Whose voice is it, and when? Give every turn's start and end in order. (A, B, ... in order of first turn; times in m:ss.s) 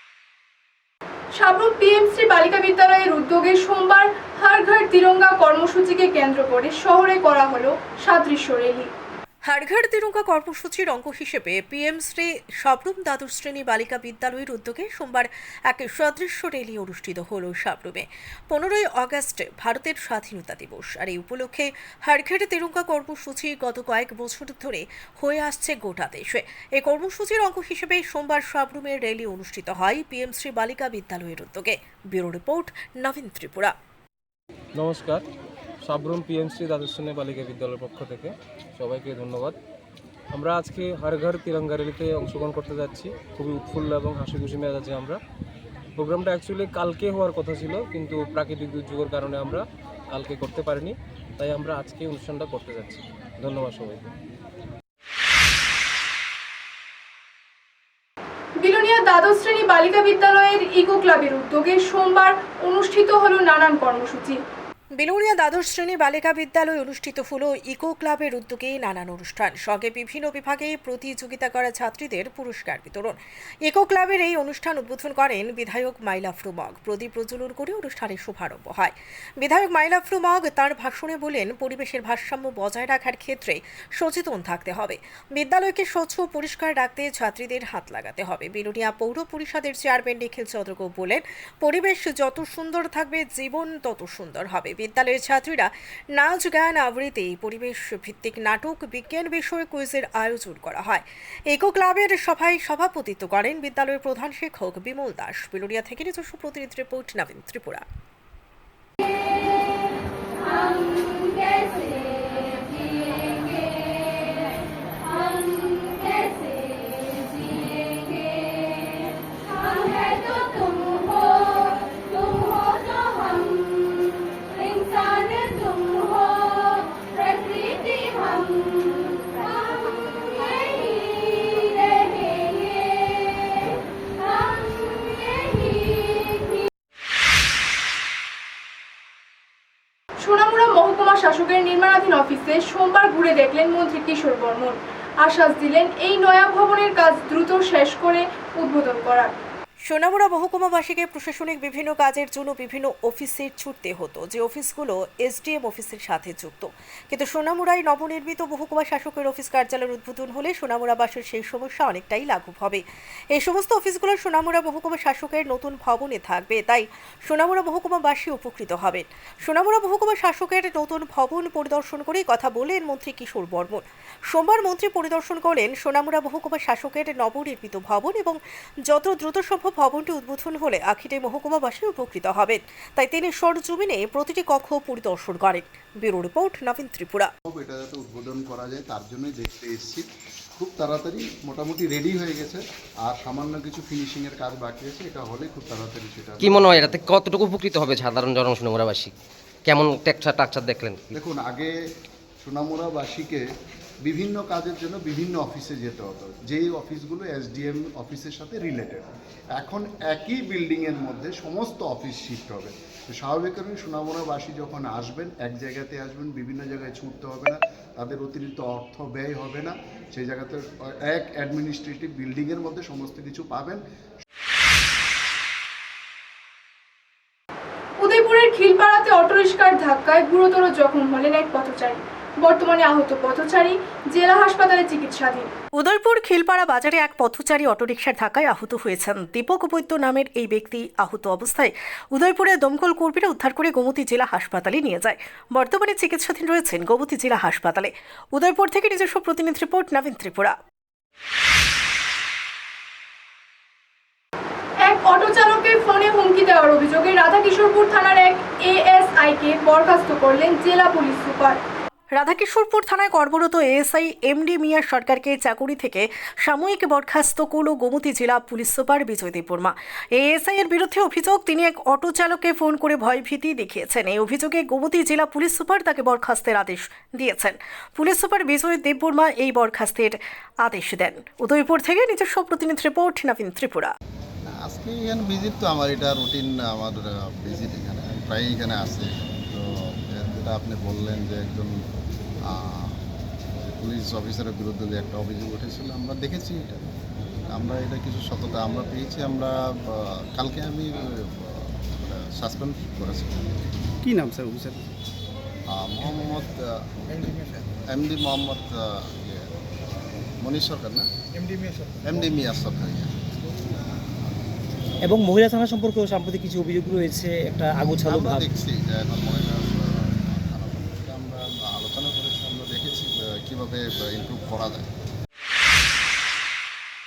0:01.4-0:08.9 A
0:09.5-0:33.8 B
0:34.8-0:35.3 C
0:35.8-0:39.6 C
0:40.3-0:45.2 C
0:46.0-0:54.0 C
0:58.6-1:04.4 A
1:05.0-1:47.8 B
2:20.2-2:29.4 A
2:29.9-3:07.3 B
3:07.5-3:10.1 D
3:10.6-3:17.0 D
3:16.4-3:19.1 E
3:19.6-3:21.2 E
3:21.1-3:21.7 D
3:22.4-3:23.5 D
3:24.1-3:43.8 D
3:48.0-3:55.5 A
3:55.8-4:10.6 B
4:14.9-4:21.6 A
4:22.2-4:43.9 B
4:44.7-4:49.7 D
4:50.2-4:51.8 D
4:52.6-4:53.0 D
4:53.8-4:56.8 D
4:57.6-5:03.6 D
5:04.1-5:04.6 F
5:05.7-5:06.7 D
5:07.2-5:09.4 D
5:10.4-5:11.1 D
5:12.2-5:13.2 D
5:15.0-5:18.5 F
5:18.2-5:24.9 D